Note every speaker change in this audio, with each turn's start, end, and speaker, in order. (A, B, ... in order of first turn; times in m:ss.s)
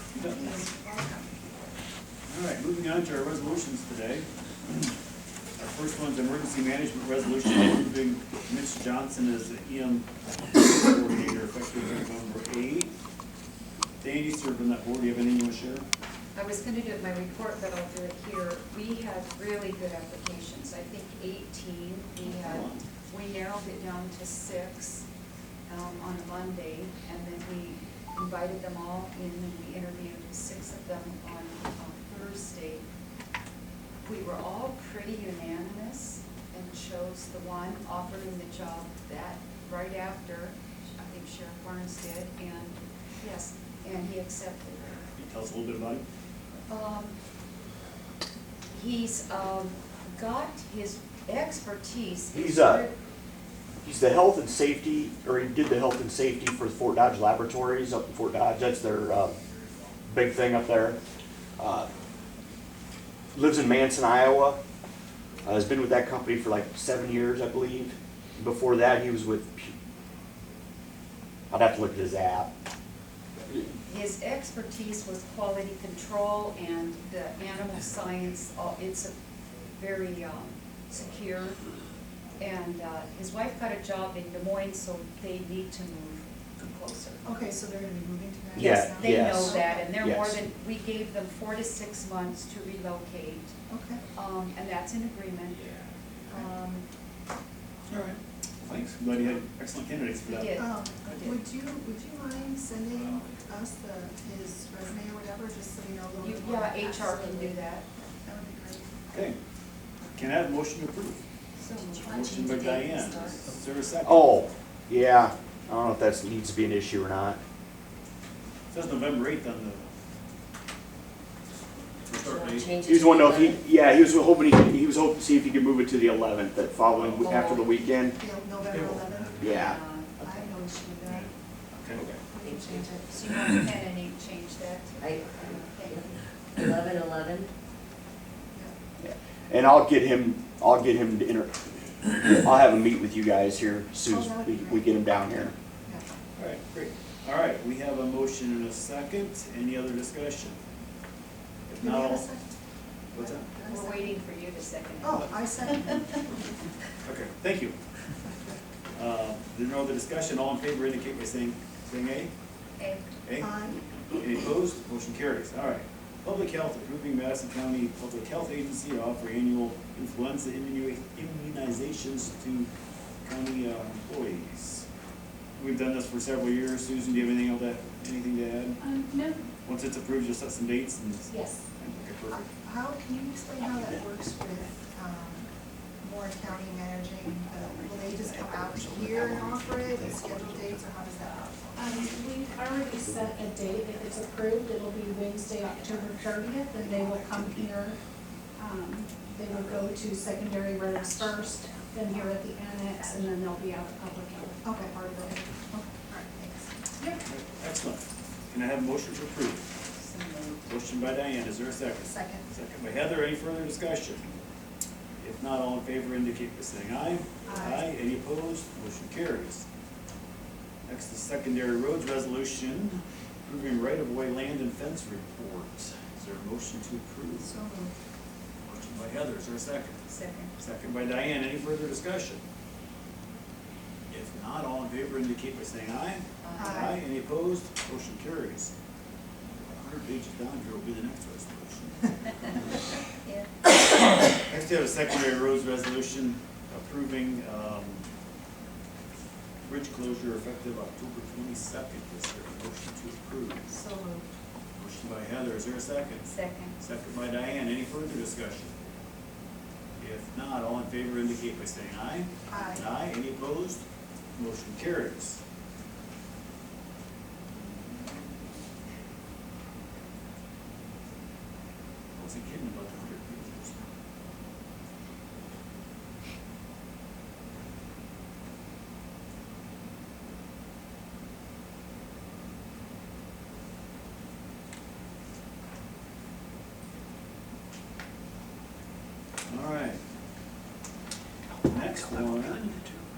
0:00.1-0:00.5 A
0:00.2-0:01.3 B
0:02.3-0:04.3 A
0:05.6-0:12.9 A
0:14.0-0:15.9 A
0:16.4-0:25.1 C
0:22.2-0:22.8 A
0:25.7-0:32.9 C
0:34.0-0:45.0 C
0:45.2-0:46.0 A
0:46.7-0:47.2 C
0:48.7-0:53.0 C
0:52.3-0:52.9 D
0:53.8-0:59.4 D
1:00.1-1:01.0 D
1:01.6-1:01.9 D
1:03.3-1:04.6 D
1:05.4-1:09.7 D
1:11.5-1:12.5 D
1:13.8-1:19.1 C
1:19.8-1:21.6 C
1:22.4-1:27.2 C
1:27.2-1:29.9 B
1:28.6-1:30.4 D
1:28.9-1:33.5 C
1:33.7-1:34.0 B
1:34.2-1:35.6 C
1:36.3-1:36.9 C
1:37.9-1:40.6 A
1:40.2-1:41.4 C
1:40.5-1:49.0 B
1:46.2-1:47.9 C
1:49.1-1:49.4 A
1:50.1-1:51.2 A
1:51.6-1:53.5 C
1:52.0-1:54.4 A
1:54.0-1:57.4 D
1:58.7-1:59.9 A
2:02.0-2:02.7 A
2:02.2-2:03.6 E
2:02.8-2:08.2 D
2:06.9-2:07.5 A
2:07.2-2:07.7 C
2:08.2-2:09.5 B
2:09.4-2:09.8 D
2:09.4-2:10.3 C
2:10.2-2:11.3 B
2:11.1-2:12.0 A
2:12.1-2:13.2 B
2:12.4-2:13.3 E
2:13.1-2:16.1 C
2:15.0-2:17.5 E
2:19.0-2:25.5 D
2:24.1-2:25.0 B
2:26.4-2:30.6 A
2:31.7-2:32.3 A
2:31.8-2:32.6 B
2:33.1-2:33.5 A
2:33.1-2:34.2 B
2:33.7-2:35.9 C
2:35.0-2:36.4 B
2:37.0-2:37.8 A
2:39.0-2:42.3 A
2:42.8-2:43.1 C
2:43.2-2:52.7 A
2:43.4-2:43.8 B
2:53.2-2:54.8 A
2:55.6-2:58.8 A
2:58.8-2:59.5 F
2:59.6-3:02.5 A
3:01.3-3:01.6 F
3:02.3-3:05.5 B
3:06.0-3:11.9 B
3:07.6-3:10.5 D
3:11.8-3:18.0 F
3:18.6-3:24.7 F
3:24.6-3:27.2 B
3:27.2-3:29.7 A
3:30.0-3:30.7 C
3:30.7-3:34.3 A
3:32.0-3:32.5 B
3:35.2-3:39.7 A
3:37.5-3:37.9 B
3:40.9-3:47.5 A
3:47.4-3:48.0 B
3:48.6-3:50.0 A
3:50.1-3:50.5 C
3:50.6-3:52.4 A
3:54.1-3:58.7 A
3:56.4-3:57.0 C
3:56.6-3:57.0 B
3:59.7-4:02.7 A
4:04.4-4:08.0 A
4:09.6-4:13.7 A
4:13.7-4:14.3 B
4:14.8-4:18.8 A
4:16.3-4:16.8 C
4:20.0-4:23.8 A
4:22.5-4:22.9 B
4:24.4-4:25.4 A
4:32.2-4:33.8 A
4:49.5-4:50.0 A
4:51.6-4:52.8 A